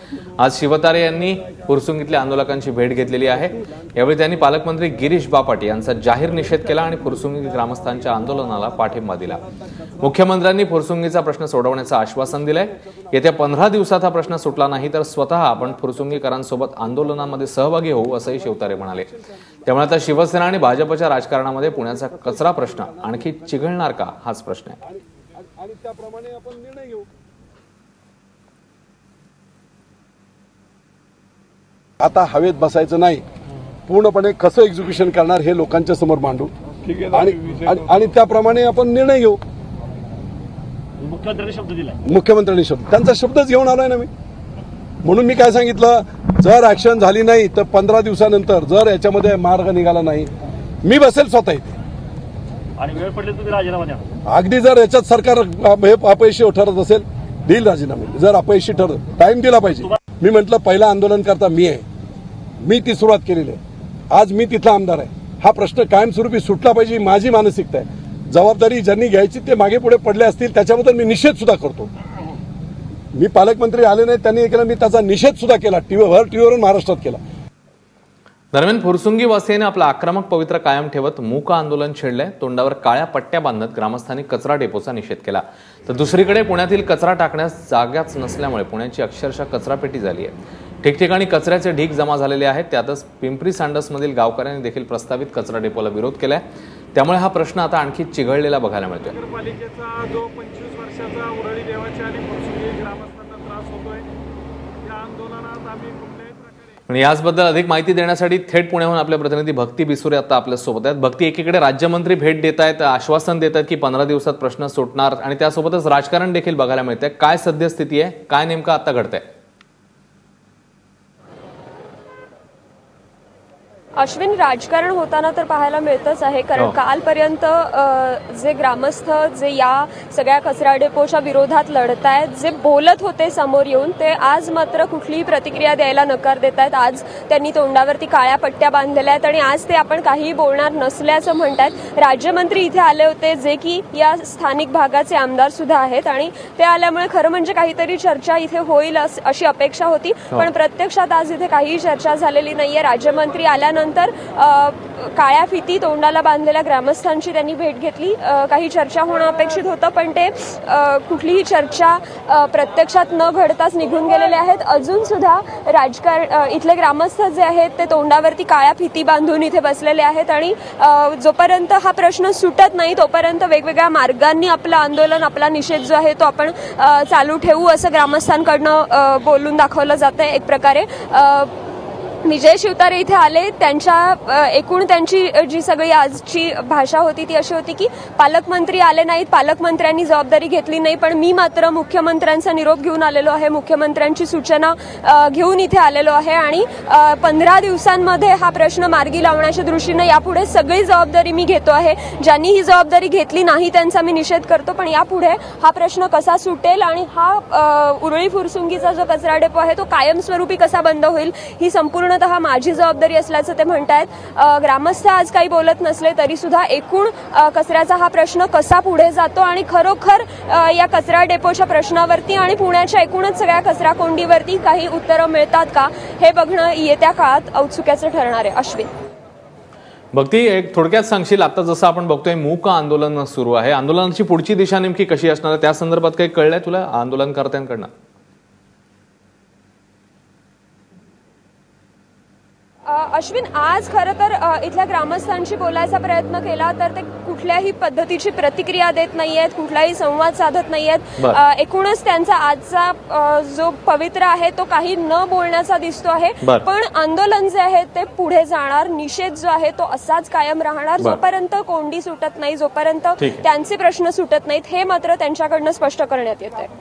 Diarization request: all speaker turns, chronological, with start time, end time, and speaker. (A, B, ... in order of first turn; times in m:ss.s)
0:00.4-0:09.4 A
0:10.0-0:19.1 A
0:19.6-0:24.8 A
0:24.8-0:27.1 B
0:32.0-0:33.2 B
0:33.9-0:36.5 B
0:36.8-0:37.8 C
0:37.1-0:39.4 B
0:41.0-0:42.0 D
0:42.0-0:44.1 B
0:45.0-0:50.3 B
0:50.8-0:51.7 B
0:52.8-0:54.1 D
0:54.2-1:01.8 B
1:02.6-1:03.6 B
1:04.1-1:11.9 B
1:13.1-1:17.2 B
1:18.5-1:39.2 A
1:39.2-1:44.1 C
1:44.8-1:46.7 C
1:46.9-1:59.2 A
2:04.0-3:01.5 E
3:02.2-3:48.9 E
3:50.1-3:57.9 A
4:02.8-4:26.7 E
4:23.2-4:23.4 A